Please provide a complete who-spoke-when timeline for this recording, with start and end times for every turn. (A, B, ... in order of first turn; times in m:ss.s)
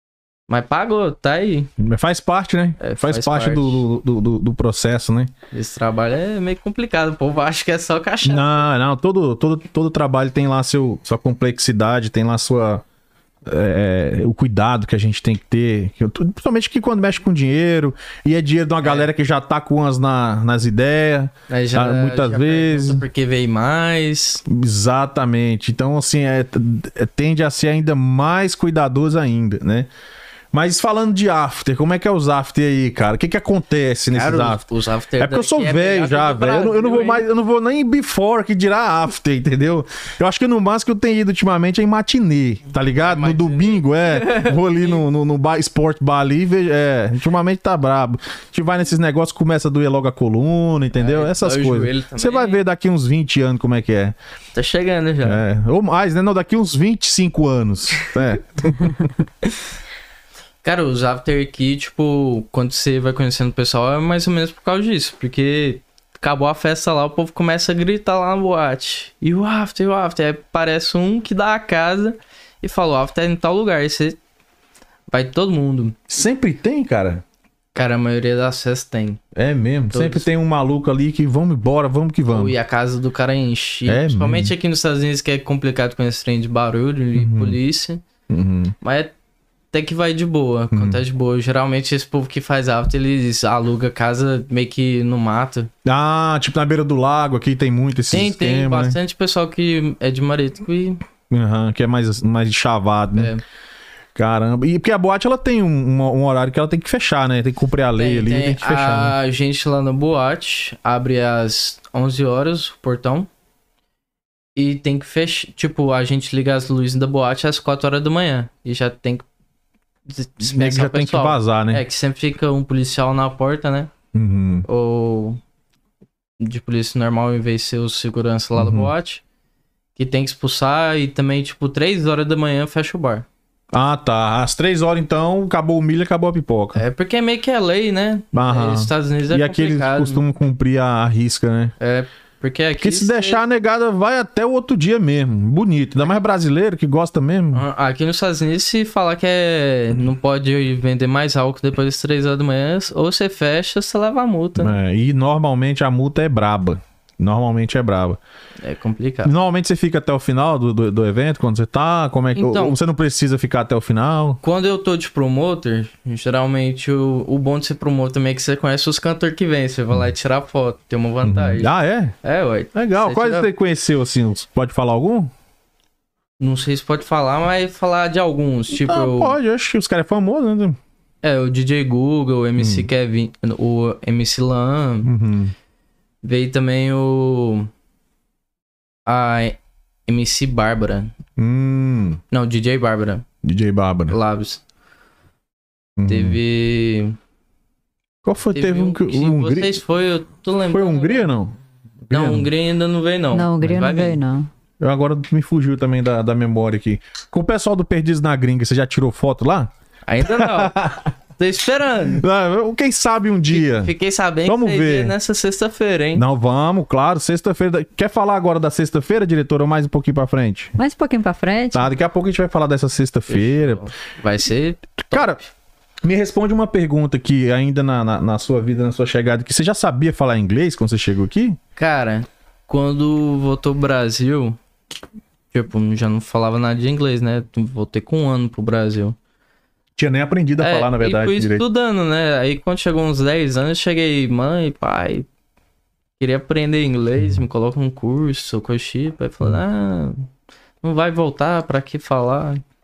0:00.5-0:01.7 A
0:01.8-0:05.3 B
0:02.8-0:03.8 A
0:05.5-0:08.7 A
0:08.2-0:12.8 B
0:13.4-0:23.0 B
0:18.8-0:19.1 A
0:21.5-0:24.4 A
0:24.5-0:29.9 B
0:30.5-0:34.6 B
0:34.1-0:37.3 A
0:35.2-0:54.2 B
0:43.0-0:45.0 A
0:51.0-0:52.6 A
0:54.5-0:55.4 A
0:55.2-0:59.1 B
1:00.6-1:14.2 A
1:15.1-1:16.0 A
1:16.1-1:17.2 B
1:17.8-1:19.2 A
1:19.3-1:22.6 B
1:19.9-1:20.3 A
1:22.3-1:28.0 A
1:23.9-1:24.5 B
1:27.2-1:27.6 B
1:28.3-1:28.8 B
1:28.8-1:29.1 A
1:29.7-1:35.7 A
1:30.7-1:31.0 B
1:35.8-1:39.0 B
1:38.1-1:41.0 A
1:41.3-1:43.3 B
1:43.2-1:43.4 A
1:44.2-1:49.2 B
1:48.0-1:53.3 A
1:54.6-1:59.3 A
2:00.1-2:03.9 A
2:00.4-2:01.8 B
2:04.1-2:04.7 B
2:04.7-2:05.4 A
2:06.4-2:09.2 A
2:08.6-2:08.9 B
2:10.0-2:13.3 A
2:13.7-2:16.8 B
2:16.8-2:20.2 A
2:18.3-2:21.7 B
2:21.8-2:23.4 A
2:22.8-2:27.6 B
2:27.5-2:34.8 A
2:34.6-2:38.2 B
2:38.6-2:39.3 A
2:39.2-2:44.4 B
2:42.4-2:42.8 A
2:44.4-2:51.7 A
2:51.2-2:52.2 B
2:52.2-2:53.5 A
2:52.7-2:55.3 B
2:56.4-2:59.4 A
2:58.7-3:00.8 B
3:01.2-3:05.1 A
3:02.6-3:02.9 B
3:05.0-3:05.5 B
3:06.2-3:07.7 A
3:09.1-3:11.2 A
3:11.4-3:12.2 B
3:12.3-3:13.2 A
3:13.4-3:14.2 B
3:14.1-3:14.6 A
3:16.0-3:16.4 B
3:16.1-3:17.2 A
3:18.2-3:19.8 B
3:18.6-3:21.3 A
3:20.7-3:22.5 B
3:22.1-3:24.2 A
3:23.3-3:24.5 C
3:24.8-3:29.7 B
3:30.1-3:30.8 A
3:30.2-3:31.1 B
3:31.4-3:32.2 A
3:32.2-3:33.9 B
3:33.5-3:36.2 A
3:34.5-3:35.1 B
3:36.2-3:40.8 B
3:40.8-3:41.9 C
3:41.7-3:43.9 B
3:43.3-3:45.5 A
3:45.1-3:45.4 B
3:46.0-3:51.6 B
3:51.8-3:54.6 A
3:55.5-3:59.2 A
4:00.0-4:01.6 B
4:00.6-4:05.3 A
4:06.2-4:10.3 A
4:10.8-4:12.6 A